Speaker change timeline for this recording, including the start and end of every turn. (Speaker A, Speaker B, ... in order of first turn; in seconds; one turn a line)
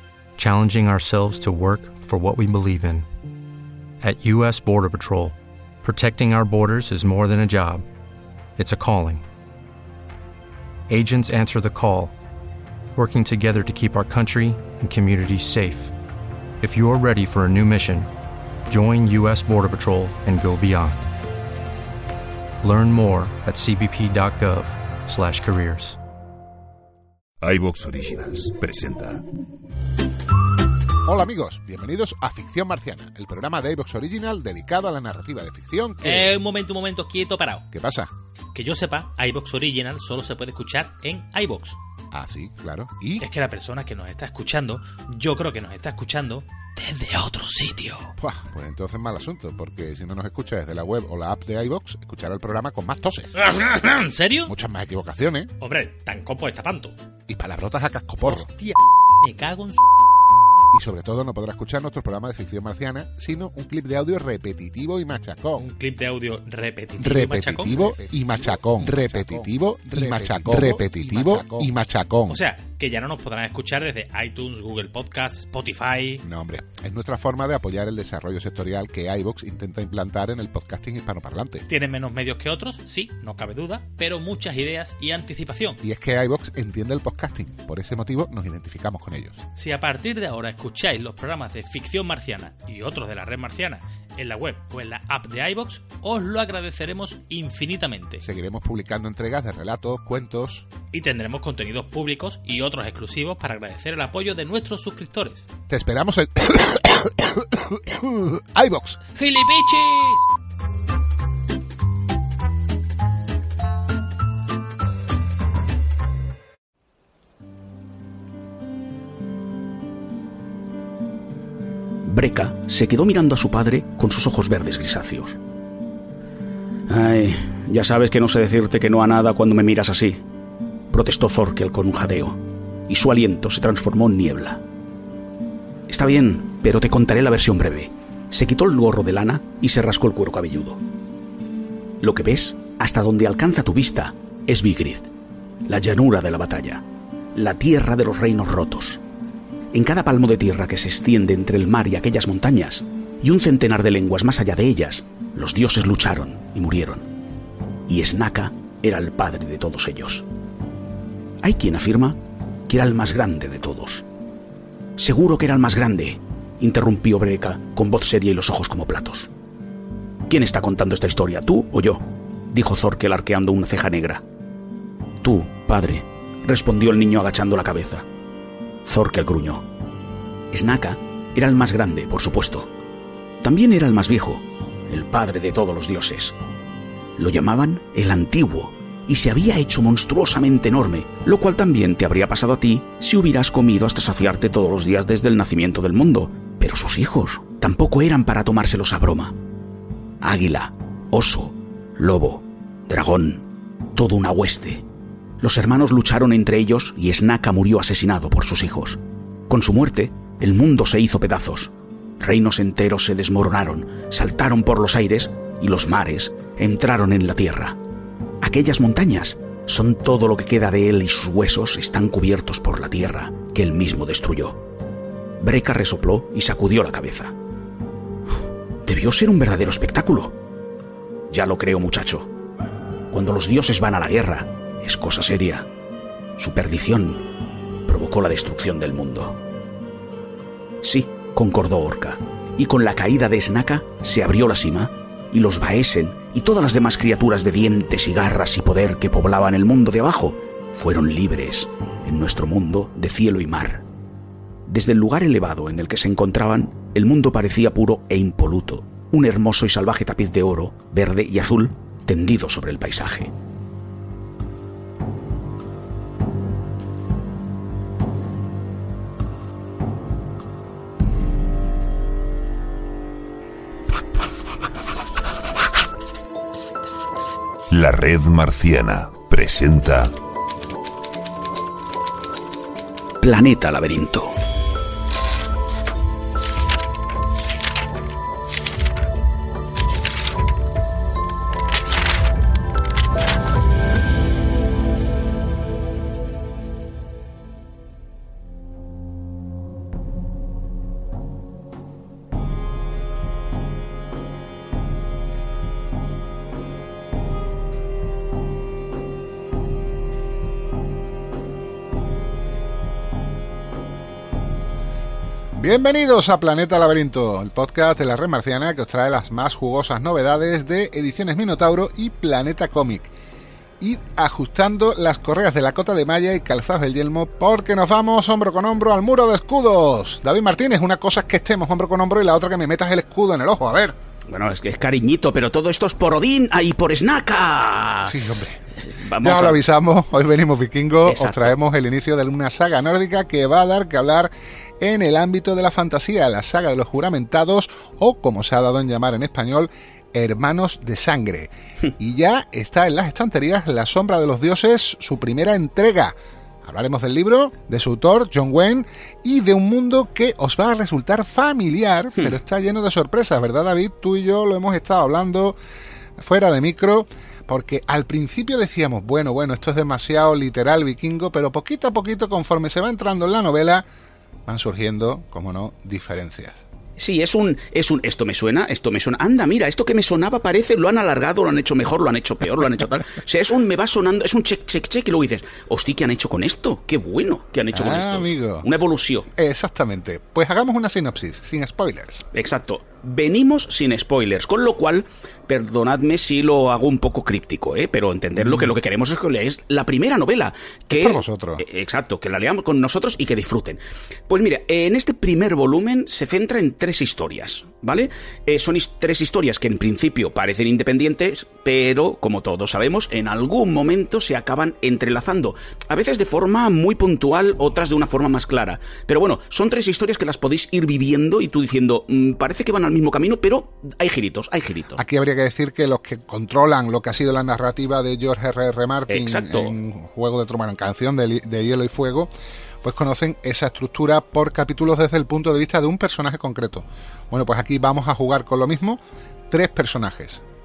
Speaker A: 0.4-3.1
Speaker A: 4.0-7.8
Speaker A: 8.6-9.2
Speaker A: 10.9-12.1
Speaker A: 13.0-15.9
Speaker A: 16.6-18.1
Speaker A: 18.7-21.1
Speaker A: 22.6-26.0
Speaker B: 27.4-29.2
Speaker C: 31.1-36.3
Speaker D: 36.0-37.6
Speaker C: 37.7-38.1
Speaker D: 38.5-41.8
Speaker C: 42.1-43.2
Speaker D: 43.2-48.1
Speaker C: 48.2-53.4
Speaker D: 53.4-54.5
Speaker C: 54.5-55.5
Speaker D: 55.6-57.0
Speaker C: 57.3-58.5
Speaker D: 58.2-59.9
Speaker C: 60.7-65.7
Speaker D: 65.6-68.1
Speaker C: 67.0-72.4
Speaker D: 68.8-69.4
Speaker D: 70.0-71.7
Speaker D: 72.3-76.2
Speaker C: 76.2-81.7
Speaker D: 81.7-85.8
Speaker C: 85.8-89.4
Speaker D: 89.6-98.2
Speaker C: 98.2-100.7
Speaker D: 100.9-105.5
Speaker C: 105.7-109.0
Speaker D: 109.2-110.3
Speaker E: 122.0-125.4
Speaker E: 126.9-130.2
Speaker E: 130.9-134.6
Speaker E: 135.9-140.8
Speaker E: 142.0-145.1
Speaker E: 145.7-149.0
Speaker E: 149.7-157.1
Speaker E: 157.9-160.2
Speaker E: 161.4-164.1
Speaker E: 165.0-169.3
Speaker E: 170.3-174.2
Speaker E: 175.2-178.1
Speaker E: 178.9-179.7
Speaker E: 180.5-182.7
Speaker E: 183.4-186.3
Speaker E: 187.2-199.4
Speaker E: 200.2-204.8
Speaker E: 205.4-217.8
Speaker E: 218.4-224.6
Speaker E: 225.4-227.3
Speaker E: 228.9-230.3
Speaker E: 231.3-232.3
Speaker E: 233.1-235.7
Speaker E: 236.4-237.2
Speaker E: 237.9-239.4
Speaker E: 240.8-253.8
Speaker E: 254.7-263.3
Speaker B: 277.7-280.1
Speaker E: 283.2-284.4
Speaker C: 315.6-323.1
Speaker C: 323.8-333.9
Speaker E: 334.3-339.6
Speaker C: 338.0-338.6
Speaker C: 339.2-365.6
Speaker E: 341.1-341.6
Speaker C: 366.2-373.9
Speaker C: 374.5-376.6
Speaker E: 377.0-389.3
Speaker C: 387.7-388.7
Speaker C: 389.4-392.2
Speaker E: 392.3-425.0
Speaker C: 400.9-401.6
Speaker C: 425.0-432.3
Speaker E: 429.1-429.7
Speaker C: 432.8-440.4